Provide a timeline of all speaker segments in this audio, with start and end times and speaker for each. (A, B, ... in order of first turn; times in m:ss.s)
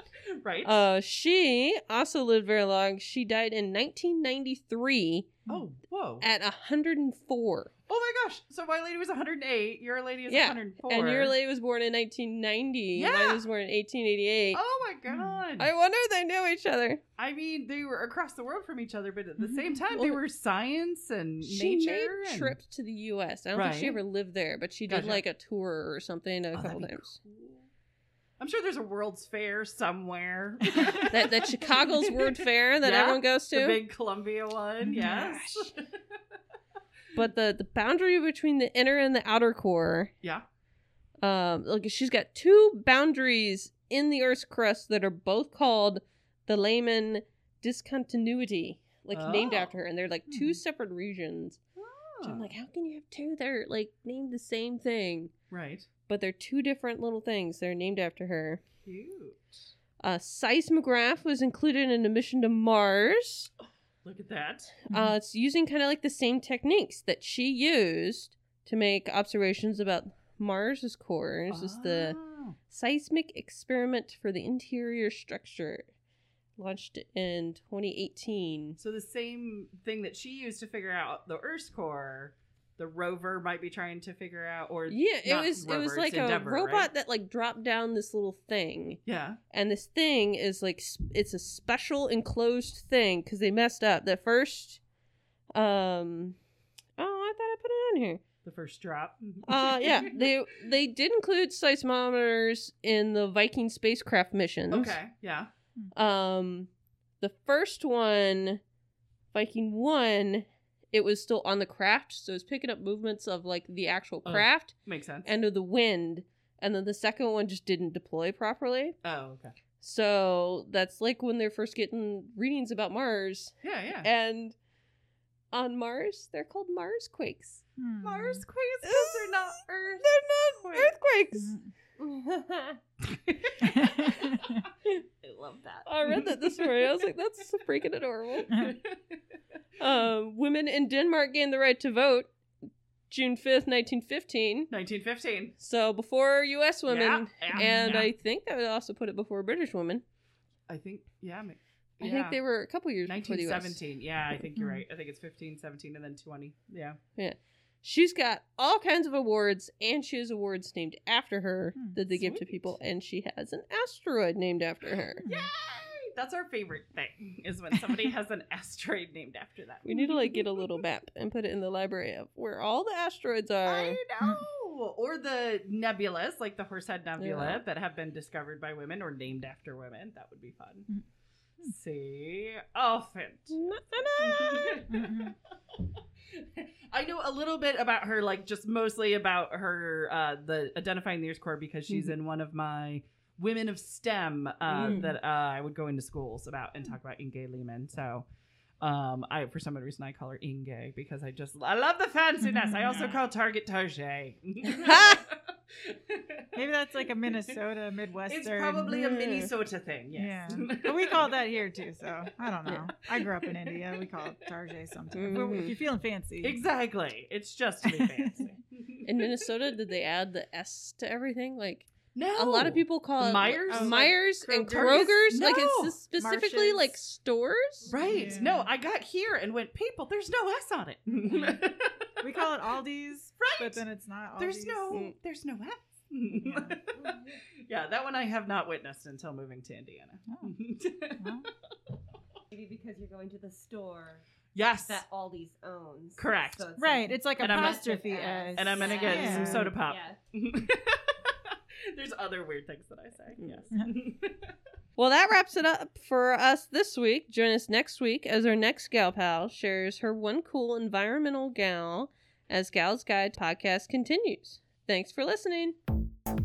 0:00.3-0:00.8 A
0:00.6-0:05.4 B
0:05.5-0:06.2 A
0:06.2-0:07.7 B
0:07.9-0:11.3 A
0:10.3-0:14.6 B
0:13.0-0:13.4 A
0:14.5-0:15.7 A
0:15.1-0:15.4 C
0:15.6-0:17.0 B
0:17.2-0:22.6 A
0:19.4-0:19.8 C
0:19.9-0:20.2 B
0:21.4-0:27.2 B
0:23.5-0:24.0 A
0:24.9-0:25.2 A
0:26.5-0:27.6 A
0:28.4-0:35.9 A
0:30.8-0:31.0 C
0:31.1-0:33.8 B
0:34.8-0:35.2 C
0:34.9-0:35.7 B
0:37.1-0:40.1 B
0:41.2-0:51.6 B
0:49.1-0:49.7 A
0:50.3-0:50.6 C
0:51.8-0:52.4 A
0:52.2-0:55.3 B
0:55.5-0:55.9 A
0:56.1-0:58.6 B
0:58.8-0:59.5 A
1:00.0-1:03.5 B
1:04.0-1:04.8 A
1:04.9-1:05.2 C
1:04.9-1:12.2 B
1:11.5-1:12.6 A
1:12.7-1:15.8 B
1:16.6-1:18.8 B
1:18.8-1:26.9 A
1:24.9-1:29.0 B
1:29.0-1:29.4 A
1:29.5-1:34.8 B
1:35.5-1:36.4 B
1:37.0-1:38.2 B
1:38.4-1:40.3 A
1:39.4-1:45.0 B
1:44.7-1:45.5 A
1:45.9-1:46.7 B
1:47.2-1:48.6 B
1:49.3-1:54.7 B
1:54.2-1:55.3 A
1:55.2-1:59.0 B
1:59.0-1:59.5 A
1:59.8-2:04.5 B
2:03.6-2:04.1 A
2:05.5-2:07.6 B
2:07.8-2:08.4 C
2:08.0-2:10.2 A
2:08.8-2:11.6 B
2:10.7-2:11.7 C
2:12.0-2:12.8 D
2:13.0-2:14.6 A
2:13.6-2:14.6 C
2:15.2-2:17.0 A
2:15.8-2:18.7 B
2:18.5-2:18.8 C
2:18.5-2:19.0 A
2:19.8-2:22.3 B
2:23.1-2:24.7 B
2:24.7-2:25.5 A
2:25.6-2:30.0 B
2:26.9-2:28.1 A
2:27.5-2:28.0 C
2:30.7-2:32.4 A
2:32.0-2:33.8 B
2:33.0-2:37.0 A
2:34.6-2:34.8 C
2:37.2-2:45.2 B
2:41.7-2:42.0 C
2:42.2-2:42.7 A
2:45.2-2:50.1 A
2:45.2-2:45.5 C
2:49.8-2:54.0 B
2:53.6-3:00.9 A
2:57.2-2:57.6 B
3:01.6-3:03.6 A
3:03.5-3:04.9 B
3:04.2-3:18.2 A
3:04.9-3:05.3 C
3:14.7-3:15.0 C
3:14.8-3:15.1 B
3:18.8-3:26.5 A
3:22.4-3:23.2 C
3:24.6-3:25.2 B
3:26.5-3:28.9 C
3:28.3-3:31.4 A
3:28.9-3:29.5 B
3:30.1-3:36.6 C
3:33.1-3:34.4 A
3:35.1-3:35.8 B
3:36.4-3:39.7 A
3:37.9-3:38.5 C
3:39.0-3:47.9 B
3:42.1-3:46.0 A
3:43.7-3:44.0 C
3:46.2-3:46.9 C
3:47.9-3:52.1 A
3:48.0-3:48.7 C
3:51.1-3:51.6 C
3:52.2-3:54.9 C
3:53.4-3:53.8 A
3:54.4-4:01.5 A
3:54.9-3:55.1 B
3:56.4-3:56.8 C
3:57.0-3:57.3 D
4:01.2-4:01.5 C
4:02.5-4:04.2 D
4:04.5-4:05.0 A
4:04.8-4:10.2 D
4:06.2-4:06.6 A
4:06.8-4:09.7 C
4:07.4-4:07.9 A
4:08.5-4:14.5 A
4:15.0-4:25.7 B